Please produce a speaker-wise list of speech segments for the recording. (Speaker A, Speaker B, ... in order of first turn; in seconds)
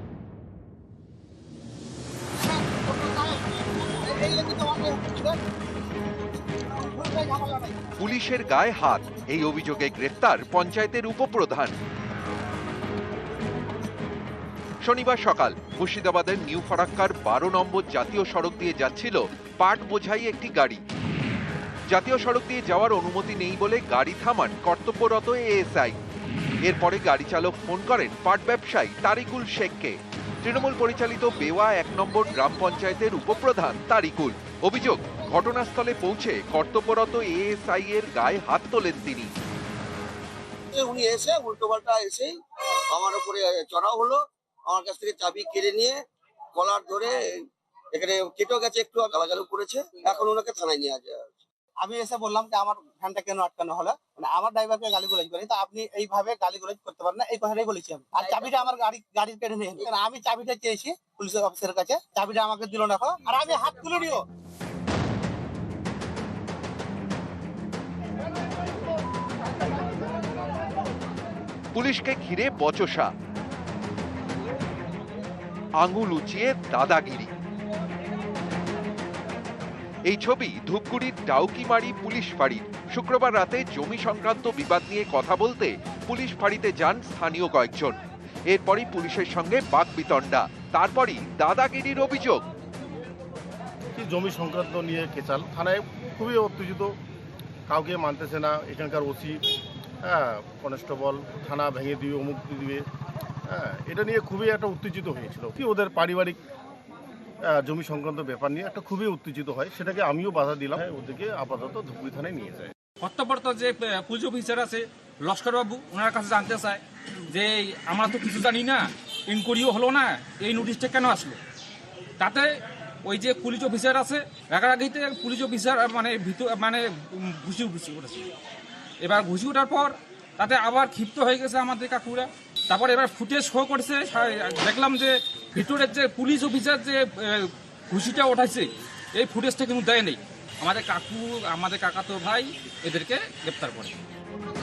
Speaker A: 2.4-5.4, 6.1-7.9, 51.8-64.2
Speaker B: 8.0-11.7, 14.8-20.8, 21.9-26.0, 26.6-39.3, 71.7-73.1, 75.8-77.3, 80.1-88.0, 88.5-92.4
Speaker C: 40.7-42.4, 42.9-46.0, 46.5-51.4
Speaker D: 94.0-97.0, 97.7-99.4, 100.0-102.8, 103.5-106.4, 107.5-112.7
Speaker E: 113.0-121.4, 122.2-122.5, 123.0-128.3, 129.0-143.9